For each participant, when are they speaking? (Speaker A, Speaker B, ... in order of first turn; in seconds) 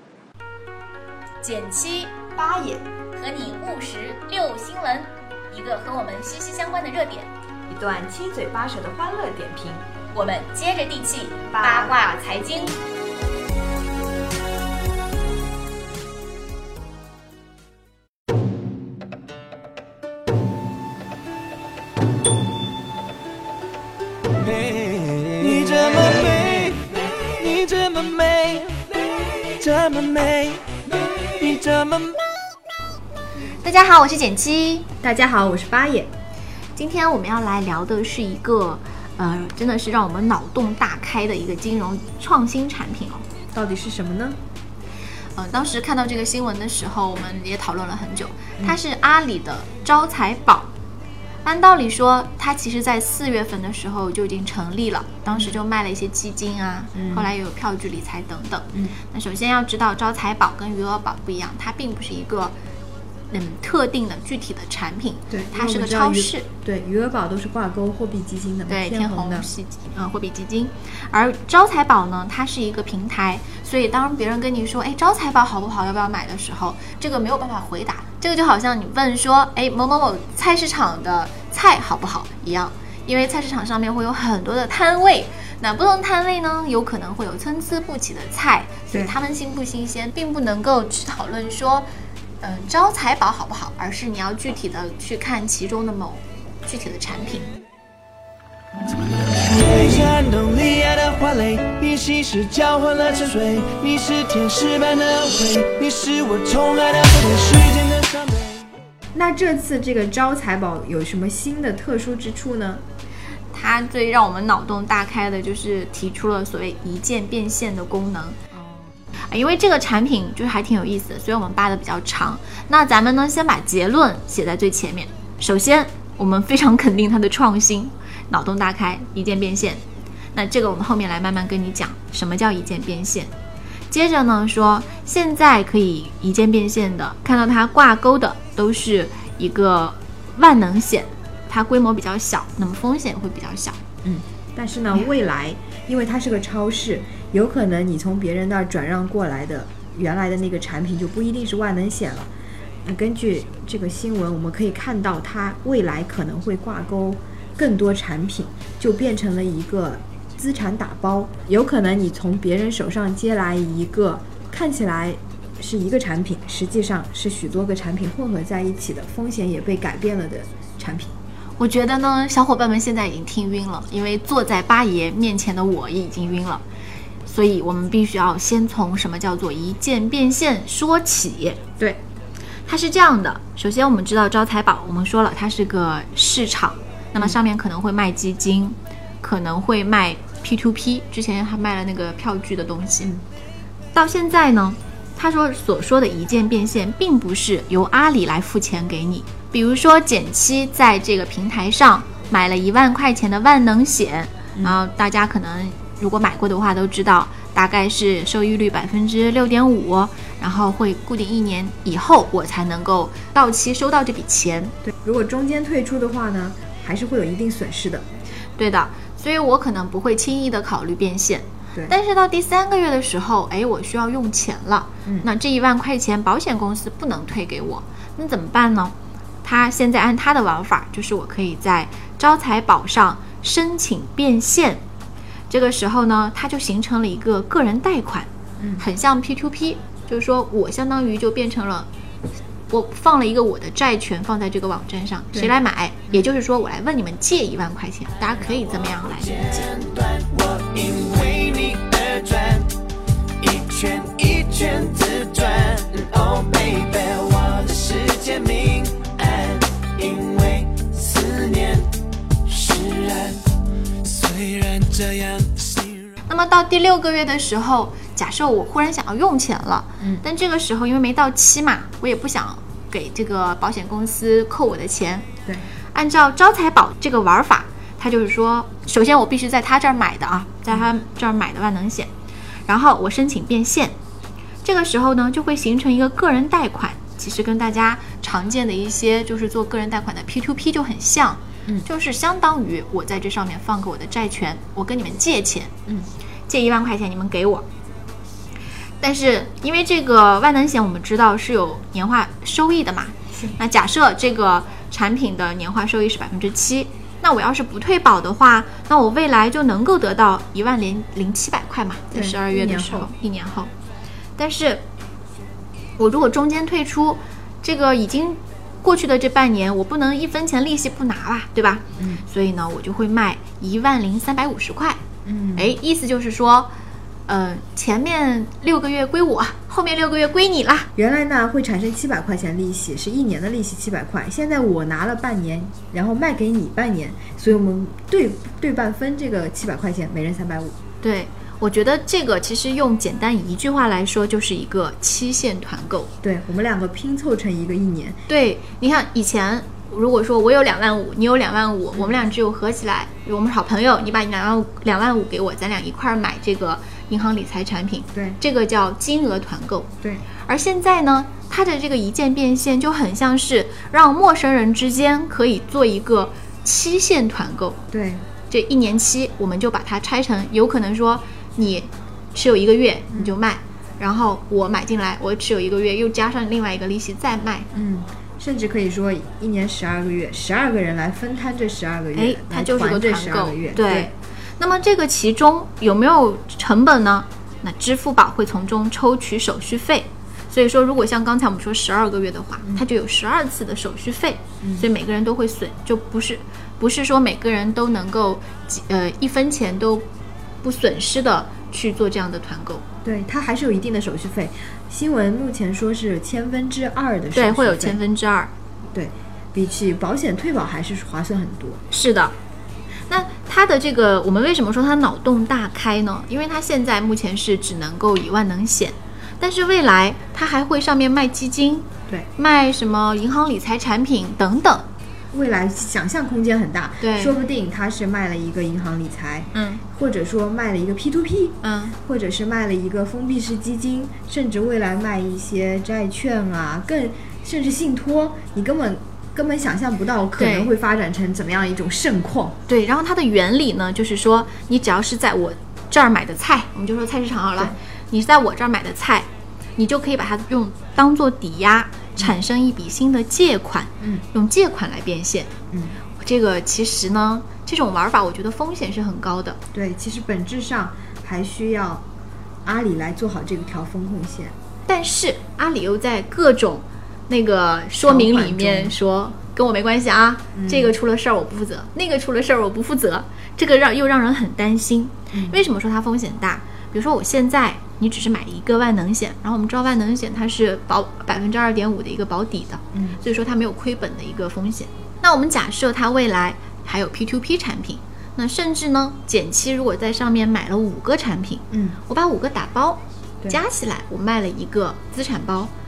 Speaker A: 1.4-2.1, 3.1-7.3, 10.1-12.8, 33.5-34.9, 36.8-43.2, 45.4-50.7, 51.4-62.6, 63.3-66.5, 68.7-91.9, 92.4-97.5, 113.5-118.4, 119.3-133.3, 133.9-143.8, 171.6-176.6, 177.2-181.8, 182.7-193.1, 193.9-214.7, 218.6-234.8, 235.5-241.9, 242.7-249.6, 266.3-275.3, 275.9-282.1, 282.7-284.0, 284.6-295.7, 296.5-297.7, 299.0-313.7, 314.4-314.9, 316.0-325.0, 325.6-326.7, 327.3-330.9, 341.0-346.1, 348.3-359.9, 360.5-367.8, 368.5-377.7, 382.1-400.1, 400.6-402.8, 407.3-408.5, 411.9-412.3, 413.1-424.9, 427.0-427.4, 429.5-429.8, 431.6-431.9, 440.4-440.7, 442.7-455.5, 456.2-459.6, 464.9-495.7
Speaker B: 2.4-2.9, 7.7-9.8, 11.5-12.1, 35.0-36.1, 43.5-44.4, 55.3-55.6, 57.0-57.3, 65.3-69.5, 109.1-112.8, 118.5-118.9, 144.0-152.3, 152.8-171.2, 214.8-218.1, 238.6-238.8, 312.1-313.1, 322.0-322.2, 325.2-325.8, 331.0-340.8, 346.2-348.2, 351.9-352.2, 367.9-368.2, 373.1-373.4, 377.7-384.1, 394.6-394.9, 403.0-408.0, 408.9-411.8, 425.3-442.6, 454.0-454.2, 455.7-456.0, 459.7-462.0, 462.6-464.5, 468.0-469.0, 470.5-470.9, 475.3-475.6, 482.9-483.2, 491.7-492.0
Speaker C: 24.5-32.2, 99.5-108.7, 249.4-252.7, 253.4-261.9, 262.5-263.4, 264.1-266.1